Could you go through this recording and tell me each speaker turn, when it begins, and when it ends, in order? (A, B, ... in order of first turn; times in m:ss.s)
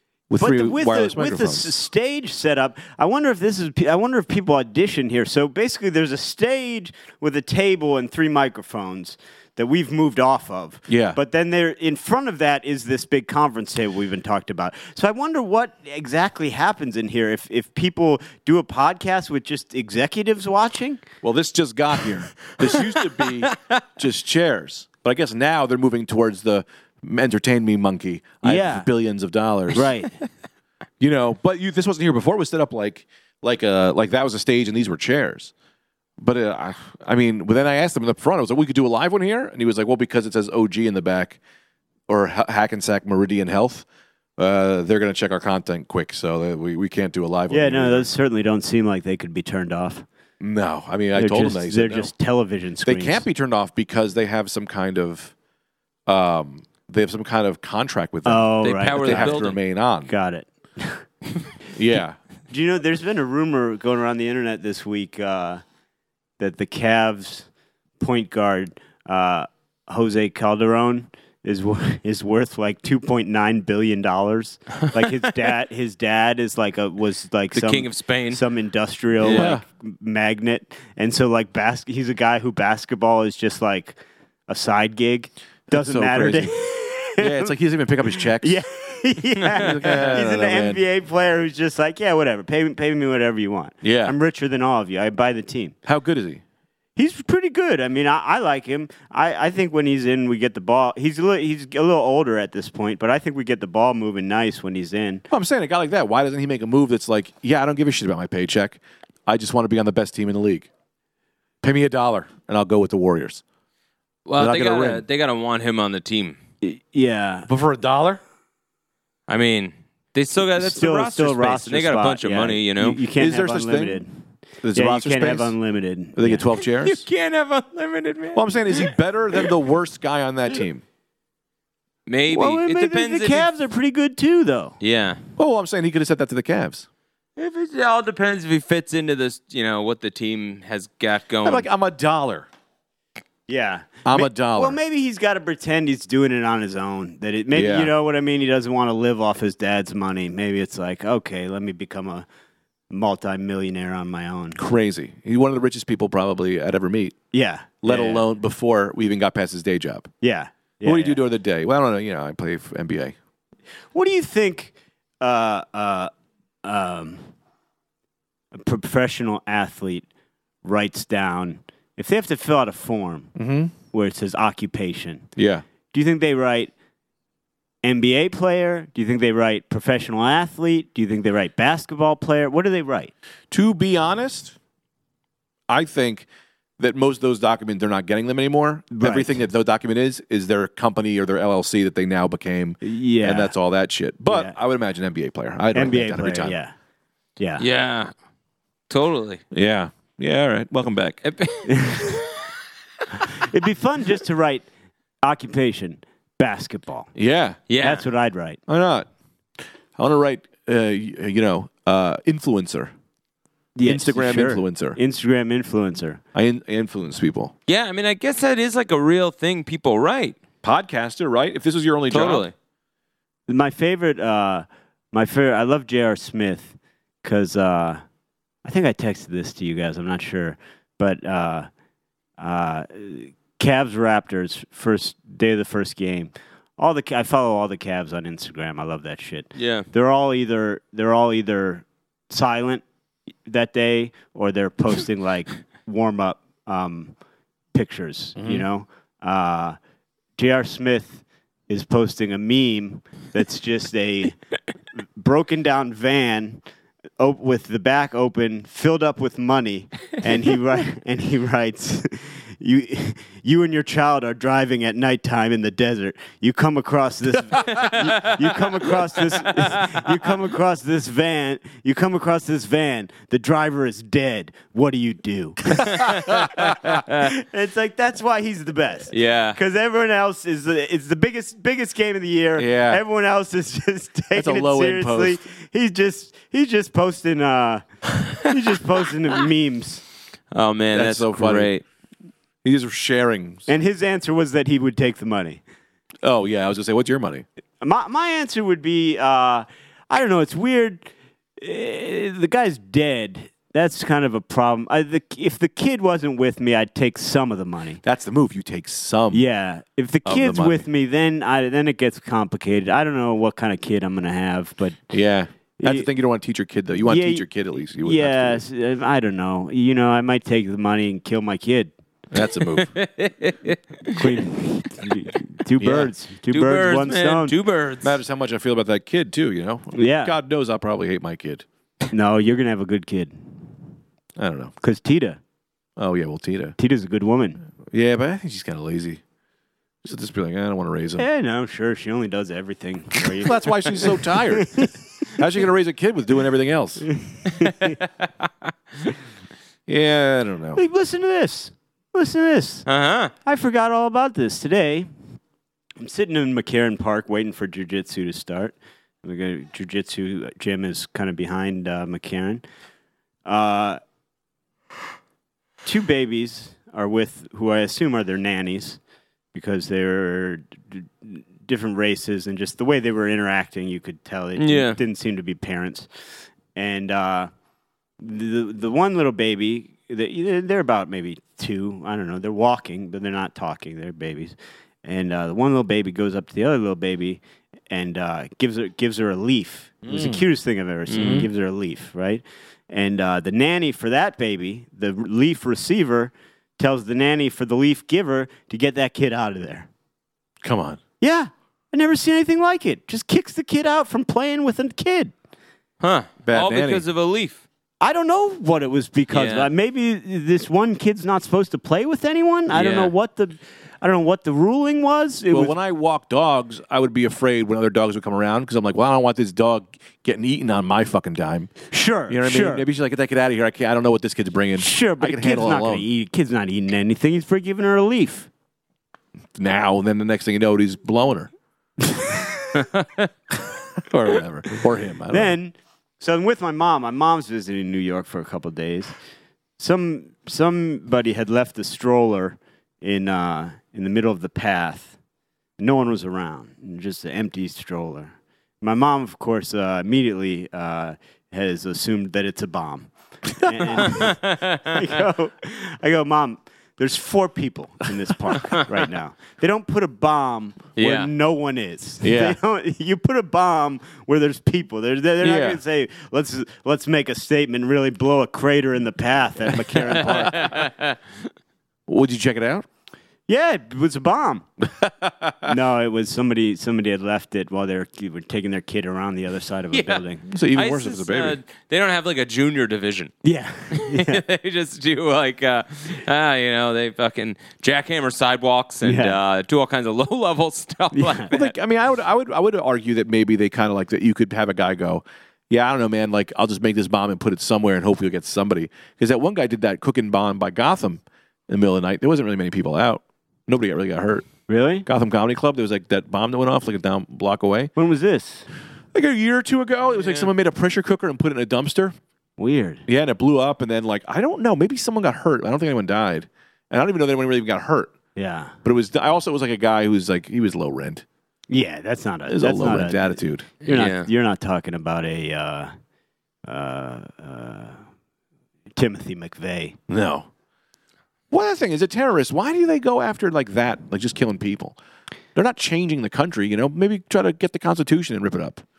0:00.3-0:01.7 A
0:00.4-0:21.0 B
0:10.9-0:11.2 A
0:21.2-0:29.9 A
0:22.6-0:23.8 C
0:28.4-0:28.9 B
0:29.7-0:30.1 B
0:31.0-0:35.5 A
0:36.2-0:41.4 A
0:42.1-0:43.8 A
0:44.4-0:48.1 A
0:47.5-0:50.0 B
0:50.4-0:52.1 A
0:51.1-0:53.2 B
0:52.8-0:55.3 A
0:56.1-1:00.1 A
0:58.3-0:59.5 B
0:58.6-0:59.6 C
1:00.1-1:01.0 B
1:01.7-1:02.2 A
1:02.5-1:05.6 B
1:06.4-1:07.5 B
1:08.0-1:27.5 B
1:17.5-1:18.4 C
1:19.2-1:19.5 C
1:19.2-1:19.6 A
1:25.7-1:26.5 A
1:27.2-1:28.6 A
1:28.2-1:35.8 B
1:29.6-1:30.8 A
1:33.8-1:34.1 A
1:35.8-1:36.4 A
1:37.0-1:45.2 B
1:45.3-1:50.7 A
1:51.6-1:53.4 A
1:54.3-1:56.4 C
1:54.4-1:55.0 A
1:56.6-1:57.5 B
1:57.5-1:58.2 A
1:59.3-2:03.0 C
2:00.5-2:04.2 B
2:03.2-2:04.0 A
2:04.6-2:05.6 A
2:04.7-2:06.5 B
2:06.1-2:07.0 A
2:06.6-2:09.5 C
2:08.3-2:10.8 A
2:12.1-2:13.5 C
2:12.3-2:14.8 B
2:14.8-2:15.2 C
2:15.4-2:16.8 A
2:17.4-2:21.7 C
2:21.4-2:22.5 A
2:23.5-2:32.3 B
2:24.0-2:24.8 A
2:27.5-2:27.9 A
2:32.9-2:34.6 B
2:34.6-2:37.1 A
2:37.3-2:38.2 B
2:37.8-2:40.1 A
2:40.2-2:41.2 B
2:40.8-2:43.1 A
2:43.9-2:46.1 B
2:46.6-2:47.3 B
2:48.5-2:50.1 B
2:50.6-2:53.3 B
2:53.4-2:53.7 A
2:53.9-2:55.3 B
2:55.4-2:55.6 A
2:55.9-2:56.7 B
2:57.8-3:03.1 B
3:03.5-3:04.6 A
3:05.7-3:06.3 A
3:06.8-3:16.6 A
3:08.9-3:09.4 B
3:12.8-3:13.5 B
3:14.3-3:14.6 B
3:15.7-3:16.7 B
3:17.4-3:17.6 B
3:17.6-3:18.1 C
3:18.9-3:19.4 C
3:19.5-3:21.2 A
3:21.2-3:22.5 C
3:21.7-3:22.1 B
3:23.2-3:24.7 B
3:25.2-3:27.1 B
3:27.1-3:27.6 A
3:27.7-3:28.0 C
3:27.8-3:28.6 B
3:28.7-3:29.1 A
3:30.0-3:32.9 A
3:33.7-3:36.2 B
3:33.8-3:35.0 A
3:36.3-3:37.5 A
3:37.7-3:40.4 C
3:40.6-3:42.4 A
3:42.1-3:42.5 C
3:43.5-3:48.0 B
3:48.6-3:51.7 B
3:52.4-4:02.8 B
3:59.6-3:59.9 C
4:03.4-4:07.1 B
4:07.7-4:09.8 B
4:08.4-4:08.6 A
4:10.4-4:14.4 B
4:15.2-4:16.6 B
4:17.2-4:50.0 B
4:35.9-4:36.7 A
4:39.1-4:39.6 C
4:42.6-4:43.0 A
4:44.3-4:45.4 A
4:50.5-4:51.8 C
4:50.9-4:51.7 A
4:52.6-4:53.7 A
4:53.7-4:55.6 B
4:56.2-4:57.4 A
4:57.8-5:08.0 B
5:08.0-5:09.4 A
5:09.3-5:15.1 B
5:10.2-5:10.8 A
5:15.1-5:18.6 A
5:15.8-5:16.1 B
5:17.0-5:17.4 B
5:18.0-5:21.9 B
5:22.3-5:22.9 A
5:22.9-5:24.3 C
5:24.1-5:27.6 B
5:25.8-5:26.1 A
5:26.5-5:28.2 C
5:28.0-5:31.6 A
5:29.9-5:30.3 B
5:32.1-5:33.7 B
5:34.4-5:34.7 A
5:34.8-5:35.4 B
5:36.0-5:36.8 A
5:36.8-5:37.6 B
5:37.8-5:39.2 A
5:40.0-5:41.3 A
5:41.2-5:45.4 B
5:43.3-5:47.1 A
5:47.1-5:48.0 B
5:49.9-5:50.8 A
5:50.8-5:52.9 B
5:52.9-5:53.3 C
5:53.4-5:55.1 B
5:56.0-6:02.6 B
6:03.4-6:04.0 B
6:05.8-6:09.0 B
6:09.5-6:16.1 B
6:14.6-6:15.0 C
6:16.7-6:17.5 B
6:18.2-6:39.9 B
6:30.0-6:30.4 A
6:31.1-6:31.4 C
6:31.2-6:31.5 A
6:40.6-6:41.0 A
6:41.2-6:45.3 B
6:46.0-6:47.6 C
6:46.4-6:47.0 A
6:48.0-6:55.8 B
6:49.3-6:49.7 C
6:52.7-6:53.1 C
6:55.5-7:06.0 A
7:01.9-7:02.9 B
7:04.8-7:08.5 B
7:09.6-7:11.5 A
7:12.2-7:12.8 B
7:12.8-7:13.3 C
7:14.0-7:15.6 A
7:15.3-7:19.1 B
7:19.8-7:25.2 B
7:25.8-7:50.9 B
7:33.6-7:34.0 A
7:34.1-7:35.0 C
7:41.0-7:41.3 C
7:42.2-7:42.6 A
7:45.4-7:45.8 A
7:49.7-7:50.9 A
7:50.6-7:51.2 C
7:52.1-7:52.9 A
7:53.5-7:54.7 B
7:54.8-7:55.7 A
7:55.6-8:00.4 B
7:59.9-8:03.3 C
8:00.5-8:01.6 A
8:03.4-8:04.4 B
8:03.9-8:11.7 C
8:09.0-8:09.4 B
8:11.1-8:11.5 B
8:11.5-8:24.5 A
8:24.7-8:25.0 B
8:25.0-8:27.9 A
8:28.0-8:28.7 B
8:29.1-8:32.1 A
8:30.2-8:30.5 C
8:32.6-8:33.0 B
8:33.1-8:38.1 A
8:38.4-8:38.7 B
8:38.8-8:41.2 A
8:41.7-8:45.9 B
8:42.5-8:43.7 A
8:43.8-8:44.3 C
8:46.6-8:48.0 B
8:49.0-8:50.0 B
8:50.1-8:50.5 A
8:51.5-8:55.0 A
8:55.6-8:58.8 A